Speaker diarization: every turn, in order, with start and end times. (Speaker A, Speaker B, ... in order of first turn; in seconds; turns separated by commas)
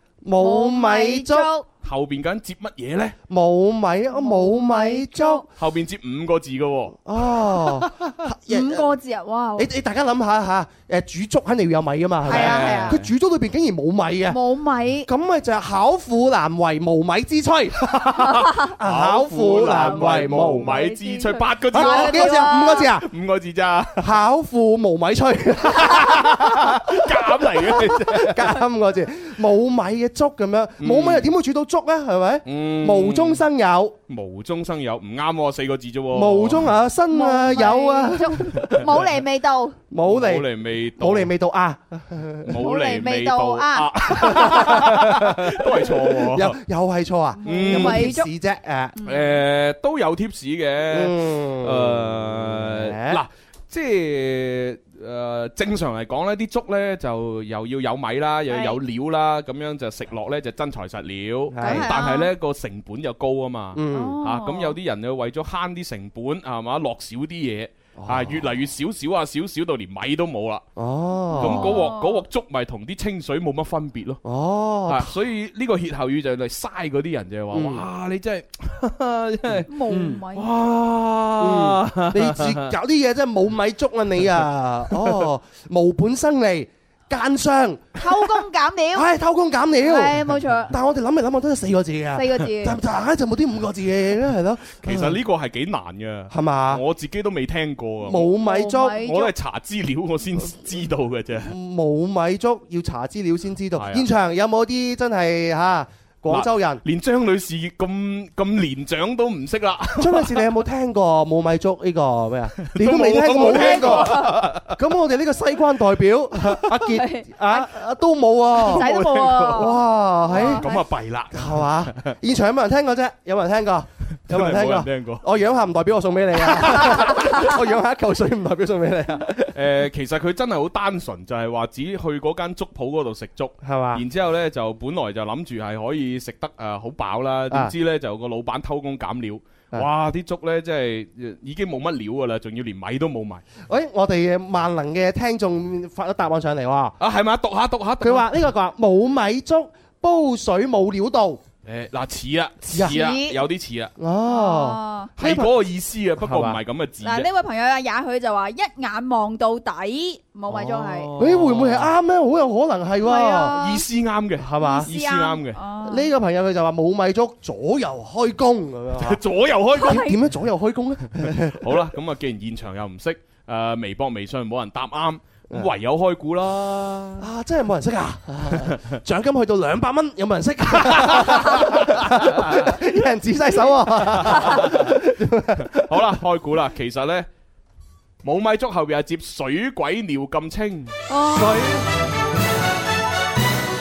Speaker A: 0.2-1.5, Speaker B: 0.4-1.7, Speaker C: 1.8-3.2, Speaker A: 3.3-5.5, Speaker B: 4.1-5.5, Speaker C: 5.6-7.7, Speaker A: 7.0-8.9, Speaker B: 8.5-9.7, Speaker A: 9.6-14.4, Speaker C: 12.2-13.1, Speaker B: 12.3-13.0, Speaker B: 14.3-15.1, Speaker A: 15.1-20.8, Speaker C: 17.9-24.1, Speaker B: 19.6-22.9, Speaker A: 21.7-23.1, Speaker A: 24.0-34.0, Speaker C: 25.7-28.6, Speaker C: 30.8-31.3, Speaker C: 32.5-33.5, Speaker C: 34.1-36.7, Speaker A: 36.1-38.7, Speaker B: 37.1-39.8, Speaker C: 38.6-39.0, Speaker A: 39.9-40.5, Speaker C: 40.0-41.3, Speaker A: 41.0-42.5, Speaker C: 42.5-46.6, Speaker B: 42.6-44.8, Speaker A: 44.3-49.0, Speaker B: 47.4-48.3, Speaker C: 47.4-48.1, Speaker B: 49.0-49.3, Speaker C: 49.0-70.7, Speaker A: 50.9-53.2, Speaker B: 58.5-58.8, Speaker A: 61.5-61.9, Speaker B: 61.6-62.3, Speaker A: 63.7-64.2, Speaker B: 63.9-64.8, Speaker A: 68.0-68.4, Speaker A: 70.8-71.8, Speaker B: 71.3-72.2, Speaker C: 71.4-74.2, Speaker A: 74.2-75.1, Speaker C: 74.9-79.7, Speaker A: 77.5-77.8, Speaker A: 79.5-80.2, Speaker B: 79.7-80.5, Speaker C: 80.3-82.7, Speaker A: 81.4-88.0, Speaker C: 84.9-85.3, Speaker B: 88.0-89.1, Speaker A: 88.9-95.2, Speaker B: 89.8-90.7, Speaker B: 92.2-92.8, Speaker C: 94.8-98.3, Speaker A: 96.3-96.8, Speaker A: 98.0-99.0, Speaker B: 98.2-99.3, Speaker C: 98.9-101.5, Speaker A: 101.5-106.8, Speaker C: 103.8-104.1, Speaker C: 106.3-110.5, Speaker A: 110.0-118.8, Speaker C: 112.7-114.8, Speaker B: 113.5-114.3, Speaker B: 116.7-117.7, Speaker B: 118.6-120.9, Speaker C: 118.7-119.8, Speaker A: 119.5-120.7, Speaker C: 120.3-122.2, Speaker A: 121.3-129.6, Speaker C: 124.3-125.2, Speaker C: 126.4-127.3, Speaker B: 126.8-127.5, Speaker C: 129.5-143.4, Speaker A: 133.6-134.0, Speaker A: 143.7-147.0, Speaker C: 147.0-148.3, Speaker A: 148.0-151.4, Speaker C: 151.6-153.9, Speaker A: 152.7-153.0, Speaker B: 152.8-153.4, Speaker A: 154.0-155.5, Speaker B: 154.3-155.1, Speaker C: 155.2-157.3, Speaker A: 156.2-156.6, Speaker B: 157.0-161.1, Speaker C: 160.5-161.9, Speaker A: 161.2-163.6, Speaker B: 163.0-163.8, Speaker C: 163.5-165.6, Speaker A: 164.4-164.9, Speaker B: 164.6-166.1, Speaker A: 165.8-169.2, Speaker C: 169.0-170.2, Speaker A: 169.8-171.8, Speaker B: 169.8-170.2, Speaker C: 171.2-177.3, Speaker A: 177.2-186.2, Speaker C: 178.5-178.8, Speaker C: 180.7-182.8, Speaker C: 184.1-185.0, Speaker C: 185.6-187.3, Speaker C: 188.2-190.9, Speaker B: 191.1-191.6, Speaker A: 191.3-191.8